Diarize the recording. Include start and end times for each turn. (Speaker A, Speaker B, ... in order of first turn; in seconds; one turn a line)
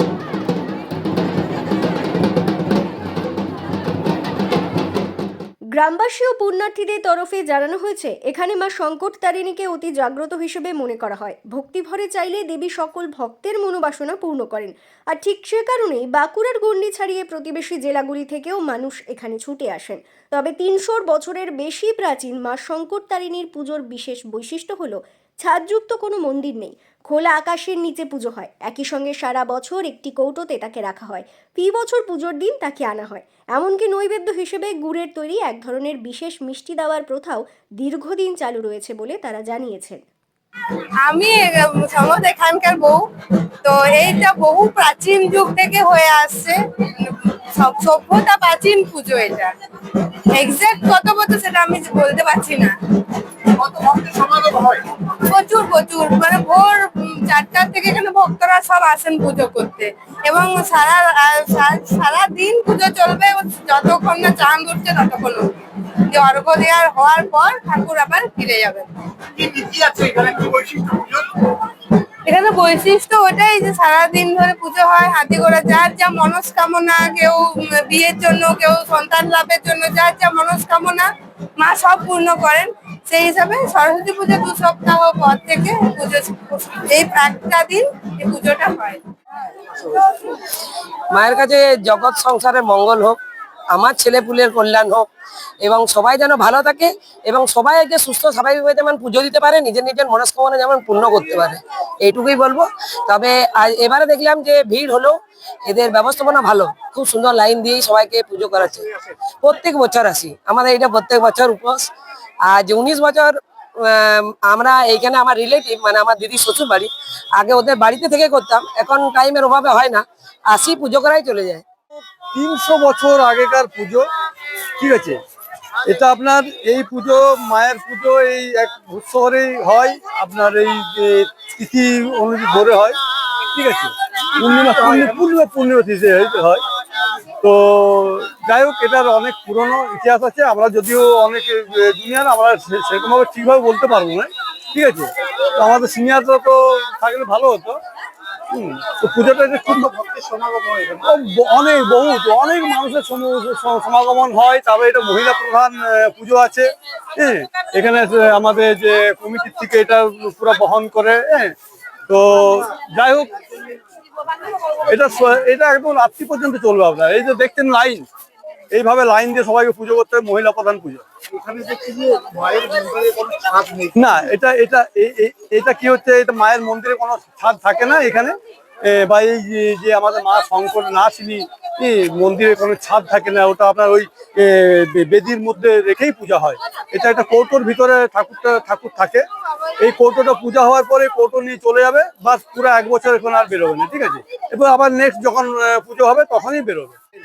Speaker A: 5.7-40.0
Speaker B: 41.0-43.1
Speaker B: 43.6-52.7
Speaker B: 53.5-89.0
Speaker C: 91.1-93.2
Speaker C: 93.7-95.0
Speaker C: 95.6-111.9
Speaker C: 112.5-121.6
Speaker D: 122.3-124.0
Speaker D: 124.8-125.2
Speaker D: 125.8-133.0
Speaker D: 133.5-136.6
Speaker D: 137.4-147.8
Speaker D: 148.5-150.0
Speaker E: 150.0-150.9
Speaker D: 150.9-161.5
Speaker D: 162.1-163.3
Speaker D: 164.8-168.1
Speaker D: 168.7-171.0
Speaker E: 171.3-173.9
Speaker D: 173.9-189.2
Speaker D: 189.8-197.0